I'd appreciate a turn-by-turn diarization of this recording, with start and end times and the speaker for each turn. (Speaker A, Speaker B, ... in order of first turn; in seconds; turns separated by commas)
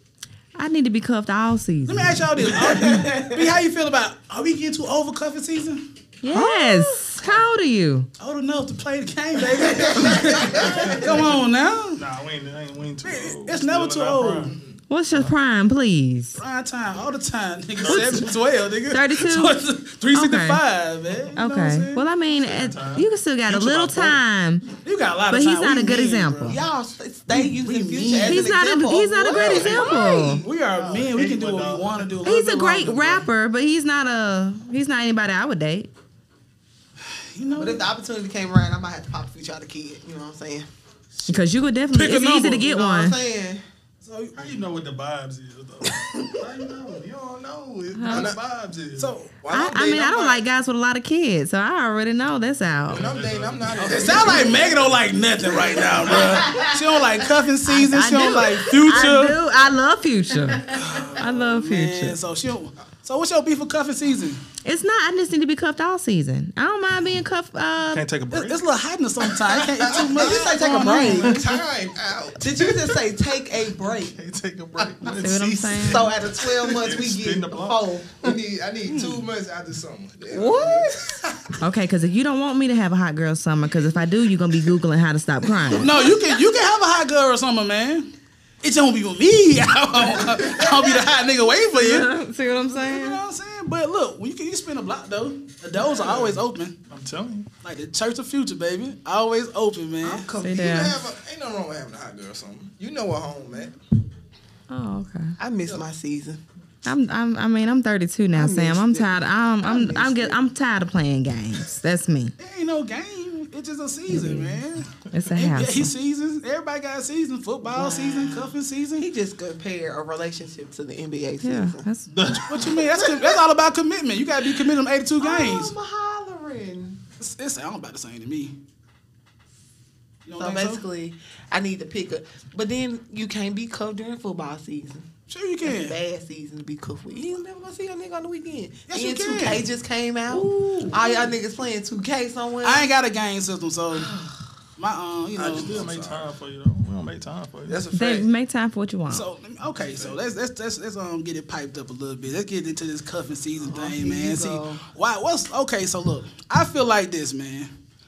Speaker A: 0.6-2.2, Speaker B: 1.9-5.8, Speaker C: 2.4-3.5, Speaker A: 6.2-8.1, Speaker C: 6.3-7.0, Speaker B: 8.2-12.0, Speaker C: 9.6-10.9, Speaker D: 10.6-10.9, Speaker E: 12.0-14.6, Speaker B: 13.0-14.6, Speaker A: 14.9-16.4, Speaker B: 16.4-22.0, Speaker A: 17.9-18.2, Speaker A: 18.9-19.6, Speaker A: 20.1-20.6, Speaker A: 21.4-24.7, Speaker E: 22.2-24.2, Speaker B: 24.8-26.6, Speaker A: 25.3-26.6, Speaker C: 26.5-30.6, Speaker B: 27.3-28.5, Speaker A: 28.2-30.4, Speaker B: 29.5-33.2, Speaker E: 30.8-32.0, Speaker A: 32.2-35.9, Speaker B: 37.1-37.9, Speaker C: 37.5-40.7, Speaker A: 41.3-43.2, Speaker B: 41.9-42.6, Speaker C: 42.5-43.6, Speaker B: 44.0-44.5, Speaker E: 44.4-49.1, Speaker B: 45.9-46.4, Speaker D: 47.1-48.4, Speaker A: 48.0-48.3, Speaker B: 49.0-49.3, Speaker D: 49.4-50.4, Speaker A: 49.5-53.1, Speaker E: 52.9-54.9, Speaker D: 52.9-54.9, Speaker C: 53.8-54.5, Speaker B: 53.8-59.4, Speaker C: 55.6-56.7, Speaker A: 57.7-62.2, Speaker B: 60.7-64.4, Speaker A: 64.7-68.0, Speaker E: 67.9-68.6, Speaker B: 68.3-71.3, Speaker D: 69.6-73.0, Speaker C: 69.8-71.6, Speaker E: 71.1-71.5, Speaker C: 72.4-74.2, Speaker E: 74.0-76.2, Speaker A: 75.2-76.1, Speaker C: 75.8-78.3, Speaker E: 76.8-77.8, Speaker D: 78.2-81.2, Speaker B: 78.9-79.2, Speaker C: 80.3-81.1, Speaker A: 81.6-86.0, Speaker B: 85.8-88.1, Speaker B: 88.6-92.1, Speaker A: 91.8-93.2, Speaker B: 92.7-96.8, Speaker E: 96.9-97.5, Speaker B: 97.6-100.3, Speaker C: 100.0-100.4, Speaker D: 100.1-103.8, Speaker A: 100.4-101.0, Speaker A: 104.7-105.4, Speaker C: 105.4-106.4, Speaker A: 106.8-112.3, Speaker C: 108.3-110.4, Speaker B: 112.4-119.1, Speaker A: 114.1-115.9, Speaker C: 117.6-121.9, Speaker A: 121.4-122.4, Speaker E: 122.1-122.5, Speaker B: 122.4-125.8, Speaker C: 122.8-123.4, Speaker C: 125.2-127.0, Speaker B: 127.2-128.5, Speaker B: 130.3-130.8, Speaker C: 130.4-135.1, Speaker B: 135.3-136.0, Speaker C: 135.6-142.9, Speaker B: 138.9-139.7, Speaker B: 140.3-141.2, Speaker B: 142.6-144.1, Speaker C: 143.9-144.4, Speaker B: 144.8-145.7, Speaker D: 145.4-146.3, Speaker E: 145.5-147.8, Speaker D: 147.7-148.3, Speaker A: 147.9-149.3, Speaker B: 149.1-157.7, Speaker D: 149.8-150.2, Speaker C: 153.6-154.9